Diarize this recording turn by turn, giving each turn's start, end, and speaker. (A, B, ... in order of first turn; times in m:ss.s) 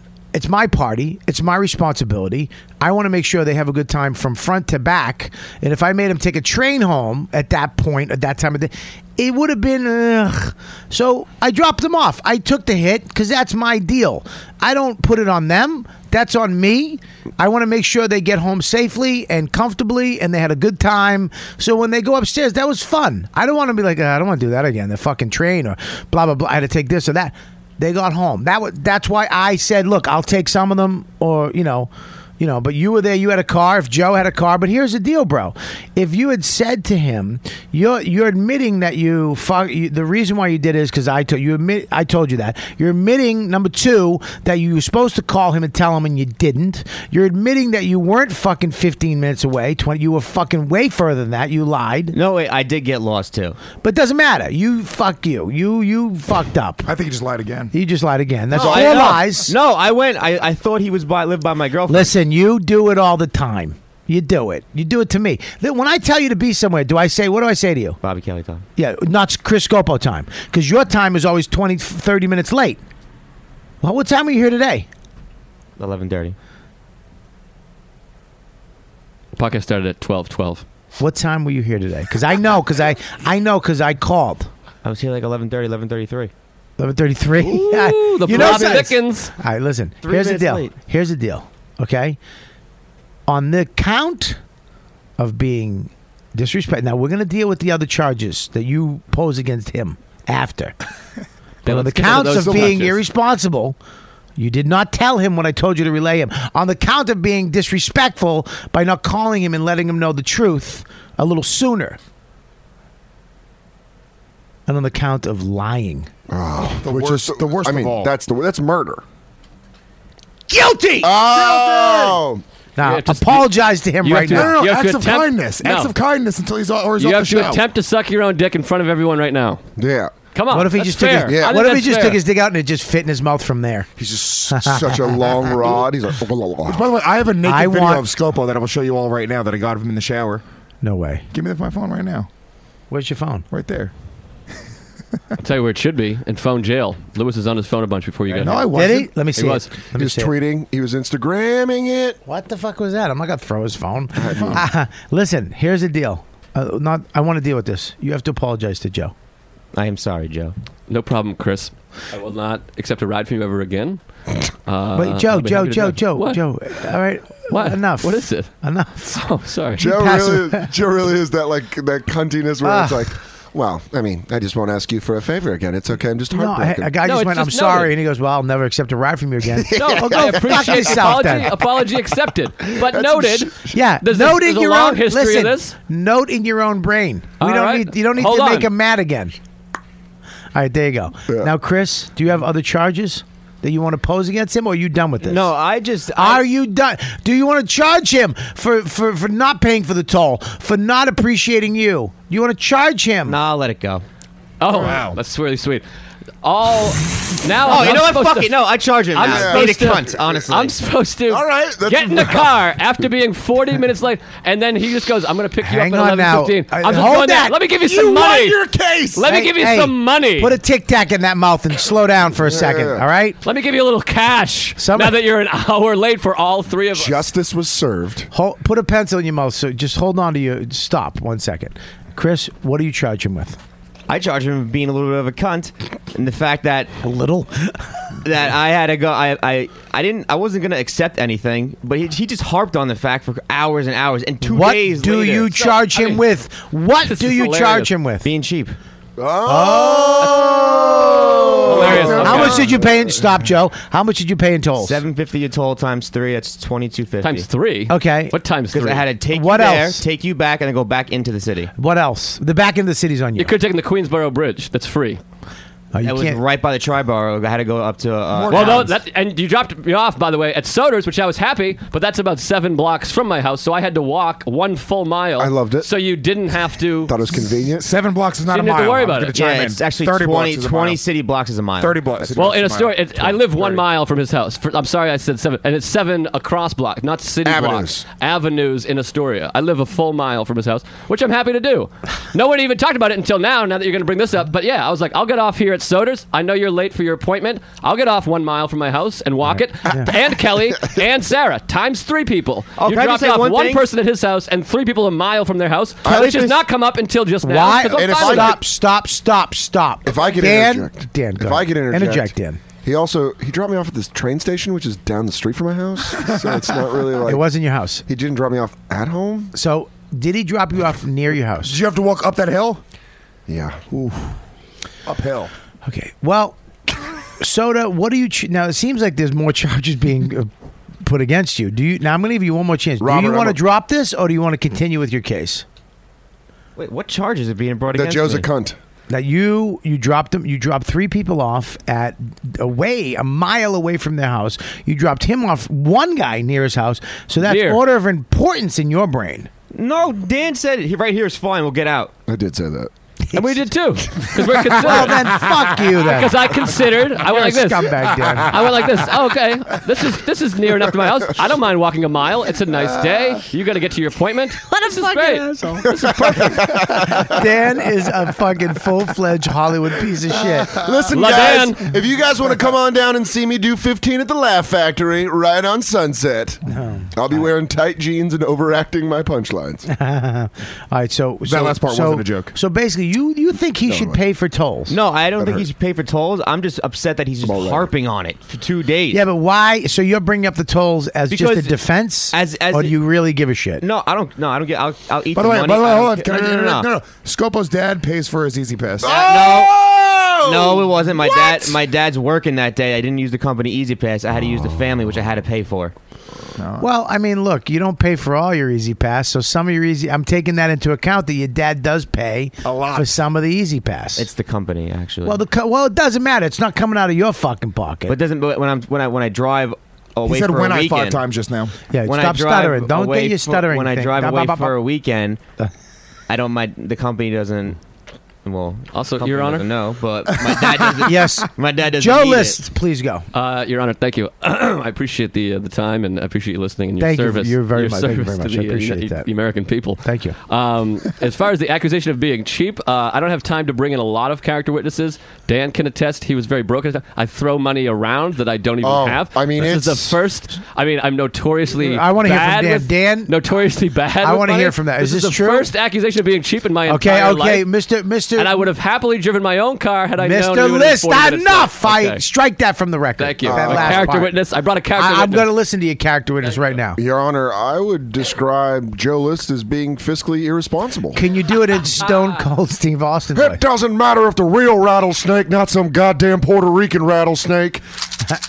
0:00.3-0:52.2 A
0:52.1-0:53.6 B
0:53.8-0:56.9 A
0:56.8-0:57.7 C
0:57.7-0:59.5 A
0:58.5-1:02.1 B
0:58.6-0:58.9 D
1:01.9-1:08.0 A
1:08.0-1:08.7 B
1:08.8-1:12.8 A
1:13.8-1:14.9 A
1:15.8-1:16.4 B
1:19.3-1:20.6 E
1:21.0-1:24.5 A
1:24.8-1:26.3 B
1:26.8-1:32.2 A
1:27.4-1:29.3 E
1:28.3-1:28.8 B
1:30.0-1:30.8 B
1:33.3-1:34.4 A
1:35.2-1:40.7 A
1:41.6-1:43.0 E
1:41.6-1:43.8 A
1:44.4-1:52.0 A
1:54.7-1:56.1 A
1:56.3-1:59.0 D
1:56.8-1:58.1 C
2:00.5-2:01.1 A
2:01.0-2:02.4 D
2:01.3-2:02.2 C
2:02.8-2:04.6 A
2:02.8-2:05.9 E
2:04.2-2:07.6 C
2:07.0-2:09.6 E
2:09.8-2:10.1 D
2:10.3-2:12.2 E
2:10.5-2:13.9 A
2:11.3-2:11.5 D
2:14.0-2:16.8 D
2:14.5-2:15.4 A
2:16.6-2:20.4 C
2:17.4-2:18.1 A
2:20.8-2:21.2 A
2:21.3-2:22.3 C
2:22.9-2:23.4 A
2:23.5-2:23.9 C
2:25.4-2:28.8 E
2:28.3-2:29.1 C
2:28.7-2:30.3 A
2:29.3-2:29.7 E
2:29.9-2:32.2 D
2:32.2-2:39.1 A
2:34.2-2:34.6 D
2:34.2-2:34.6 C
2:39.7-2:40.5 B
2:40.9-2:44.0 E
2:44.7-2:46.4 E
2:44.9-2:49.2 A
2:47.5-2:48.5 E
2:49.1-2:49.9 E
2:49.8-2:57.0 D
2:49.8-2:50.7 A
2:52.6-2:53.1 A
2:56.3-3:01.5 A
2:57.0-2:57.9 E
2:59.7-3:01.1 D
2:59.7-3:05.7 E
3:02.7-3:03.8 D
3:03.7-3:09.3 A
3:07.4-3:08.7 E
3:10.5-3:15.5 A
3:15.2-3:16.4 B
3:16.1-3:23.4 A
3:23.2-3:24.0 B
3:24.6-3:25.8 E
3:24.7-3:25.2 C
3:26.4-3:28.6 E
3:27.6-3:30.8 B
3:29.1-3:40.6 E
3:29.2-3:29.8 D
3:31.3-3:32.6 D
3:35.6-3:37.6 A
3:37.8-3:39.2 C
3:39.2-3:43.4 A
3:42.4-3:43.0 D
3:43.4-3:47.2 E
3:44.8-3:45.2 A
3:46.9-3:48.3 D
3:48.3-3:53.6 A
3:54.1-3:57.0 B
3:57.0-3:57.7 A
3:58.2-4:05.6 B
4:04.4-4:08.2 A
4:05.5-4:06.2 E
4:07.0-4:07.9 E
4:08.2-4:08.8 B
4:09.2-4:13.1 D
4:09.4-4:15.0 A
4:10.2-4:10.5 E
4:11.6-4:12.7 E
4:11.8-4:12.6 C
4:11.8-4:12.2 B
4:14.8-4:17.5 B
4:17.2-4:19.1 E
4:17.9-4:18.4 A
4:18.7-4:21.7 B
4:19.3-4:20.0 A
4:21.8-4:23.6 A
4:23.4-4:25.2 E
4:25.9-4:26.4 A
4:26.0-4:28.9 B
4:28.3-4:28.9 C
4:28.5-4:37.1 E
4:35.4-4:35.9 D
4:37.1-4:37.9 D
4:37.8-4:41.0 C
4:38.5-4:39.4 E
4:39.3-4:42.2 B
4:41.8-4:43.8 C
4:42.4-5:08.6 E
4:47.4-4:48.0 D
4:59.5-5:00.1 A
5:02.8-5:03.8 B
5:06.0-5:06.6 D
5:07.4-5:12.6 A
5:07.9-5:08.6 D
5:10.0-5:17.4 D
5:16.2-5:16.6 C
5:17.2-5:18.0 A
5:18.1-5:19.5 D
5:19.5-5:21.8 A
5:21.6-5:22.8 C
5:23.5-5:24.1 D
5:25.0-5:25.5 C
5:25.8-5:30.5 A
5:31.0-5:35.6 A
5:33.0-5:33.6 D
5:36.8-5:38.5 B
5:37.9-5:38.8 D
5:39.1-5:49.5 A
5:47.4-5:47.8 E
5:49.7-5:52.1 B
5:52.3-5:52.9 D
5:53.3-5:53.6 A
5:53.3-6:06.7 E
5:54.6-5:58.7 A
6:04.7-6:05.8 A
6:05.9-6:07.4 D
6:07.2-6:10.8 A
6:10.7-6:16.6 D
6:11.1-6:11.8 E
6:16.6-6:17.4 A
6:17.1-6:19.9 D
6:19.9-6:25.0 A
6:21.4-6:22.5 C
6:23.8-6:24.2 D
6:24.9-6:29.2 B
6:25.3-6:25.7 D
6:27.4-6:27.9 D
6:29.1-6:33.8 A
6:31.3-6:31.8 B
6:32.3-6:33.0 B
6:33.8-6:36.9 B
6:35.3-6:39.1 C
6:39.0-6:41.8 D
6:39.0-6:39.8 B
6:40.4-6:45.9 B
6:46.6-6:46.9 C
6:46.8-6:54.2 A
6:52.6-6:53.1 C
6:54.2-6:55.4 B
6:55.2-6:58.2 A
6:58.1-7:01.2 B
7:00.2-7:01.7 C
7:01.9-7:04.8 A
7:02.0-7:05.4 B
7:06.3-7:07.8 B
7:08.4-7:12.6 B
7:08.9-7:09.6 E
7:10.4-7:13.3 A
7:13.3-7:37.7 E
7:17.0-7:19.3 A
7:20.0-7:20.3 A
7:28.8-7:30.2 D
7:31.7-7:33.3 A
7:34.2-7:35.7 A
7:36.8-7:38.6 A
7:38.3-7:42.2 E
7:40.2-7:44.4 A
7:43.2-7:45.5 E
7:43.4-7:44.1 D
7:44.9-7:47.0 A
7:47.0-7:51.2 D
7:51.1-7:53.6 A
7:52.0-7:52.3 E
7:53.3-7:57.8 D